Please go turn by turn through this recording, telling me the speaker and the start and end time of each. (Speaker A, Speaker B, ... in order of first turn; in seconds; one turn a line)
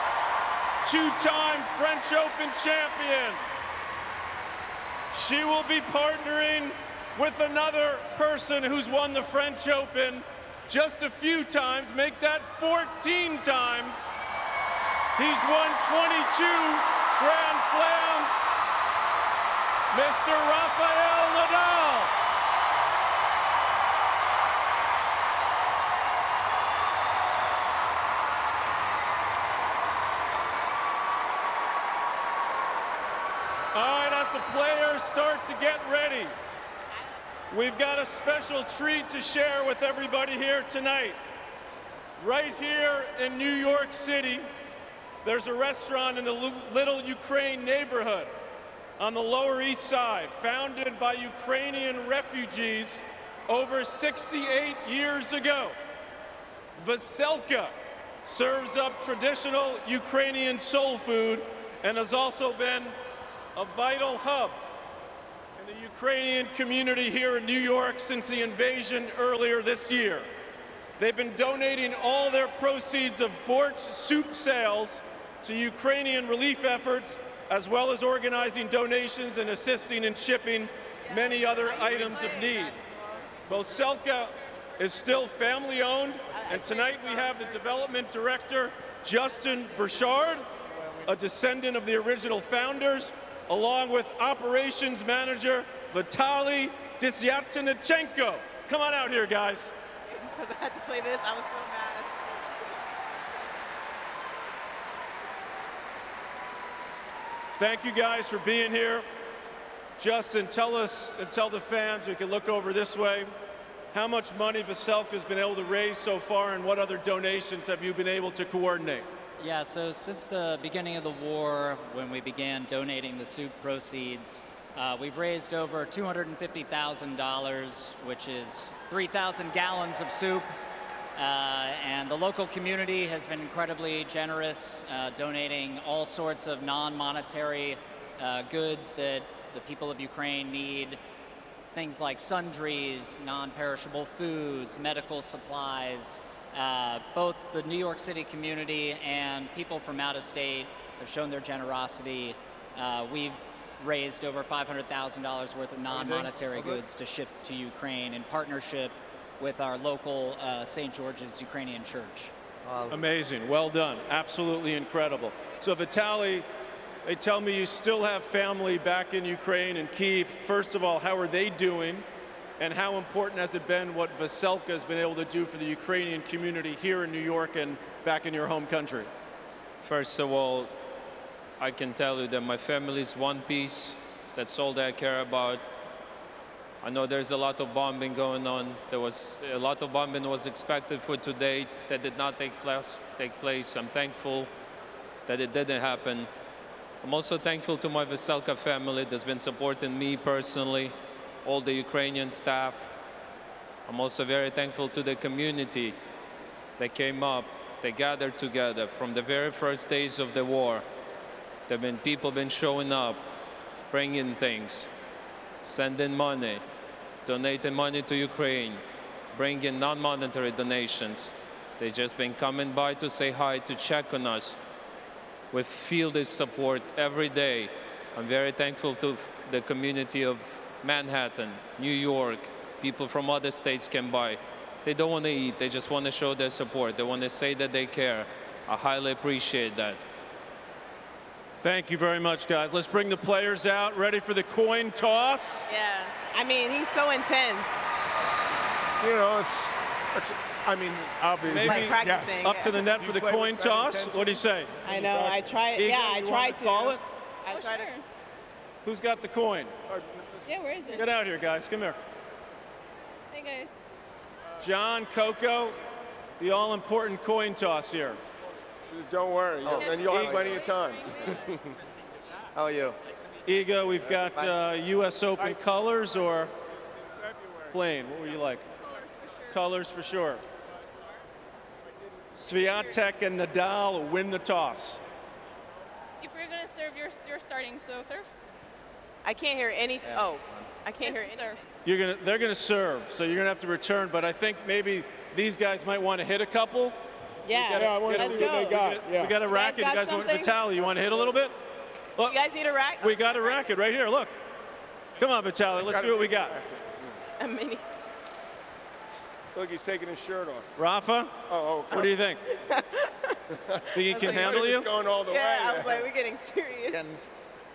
Speaker A: 0.8-3.4
Speaker A: 5.1-14.2
Speaker A: 15.2-18.5
Speaker A: 19.9-22.1
Speaker A: 33.8-36.3
Speaker A: 37.5-41.2
Speaker A: 42.2-44.5
Speaker A: 45.2-48.3
Speaker A: 49.0-55.8
Speaker A: 56.8-57.7
Speaker A: 58.2-62.9
Speaker A: 63.5-64.6
Speaker A: 65.6-70.3
Speaker A: 71.0-82.8
Speaker B: 81.0-83.2
Speaker A: 83.5-90.4
Speaker B: 86.3-87.6
Speaker A: 91.0-99.7
Speaker B: 100.1-102.1
Speaker A: 107.6-109.0
Speaker A: 110.0-113.3
Speaker A: 113.9-119.1
Speaker C: 119.4-130.5
Speaker C: 131.2-141.0
Speaker C: 141.7-162.3
Speaker D: 155.9-156.8
Speaker D: 162.6-163.0
Speaker A: 162.9-166.4
Speaker A: 167.0-172.0
Speaker A: 172.6-179.1
Speaker E: 179.8-180.7
Speaker E: 181.6-185.6
Speaker E: 186.8-194.5
Speaker E: 195.3-196.3
Speaker E: 197.0-202.9
Speaker E: 203.9-206.0
Speaker E: 206.8-210.8
Speaker E: 211.7-213.2
Speaker E: 213.9-214.9
Speaker E: 215.6-216.6
Speaker E: 217.2-218.8
Speaker E: 219.3-224.6
Speaker E: 225.5-240.0
Speaker A: 241.6-245.7
Speaker B: 245.7-247.8
Speaker F: 249.0-255.4
Speaker A: 251.4-254.8
Speaker B: 251.6-252.7
Speaker B: 254.8-257.9
Speaker A: 255.8-257.0
Speaker G: 257.5-258.0
Speaker A: 258.8-259.7
Speaker F: 259.9-260.4
Speaker G: 260.4-261.0
Speaker A: 260.9-262.0
Speaker G: 263.3-263.8
Speaker A: 264.6-265.8
Speaker A: 266.4-268.2
Speaker F: 268.9-271.6
Speaker D: 269.6-270.6
Speaker G: 269.7-271.5
Speaker A: 270.0-270.5
Speaker D: 272.5-272.9
Speaker A: 273.4-276.5
Speaker D: 274.0-274.6
Speaker F: 277.2-277.8
Speaker A: 277.7-278.7
Speaker A: 279.5-280.4
Speaker A: 282.4-285.0
Speaker G: 286.2-288.3
Speaker B: 289.2-291.5
Speaker D: 290.0-290.7
Speaker G: 291.0-291.6
Speaker A: 291.8-297.0
Speaker B: 297.4-298.8
Speaker A: 297.5-301.5
Speaker F: 297.7-299.4
Speaker B: 299.4-300.6
Speaker F: 300.9-301.3
Speaker B: 302.3-303.5
Speaker A: 303.0-304.4
Speaker A: 305.2-306.5
Speaker F: 305.8-307.2
Speaker B: 307.4-307.8
Speaker F: 309.5-310.7
Speaker A: 310.8-311.4
Speaker F: 311.5-312.1
Speaker A: 311.9-312.4
Speaker B: 311.9-313.4
Speaker F: 313.7-316.1
Speaker A: 313.9-314.9
Speaker B: 314.1-314.5
Speaker B: 315.3-317.0
Speaker D: 316.9-317.2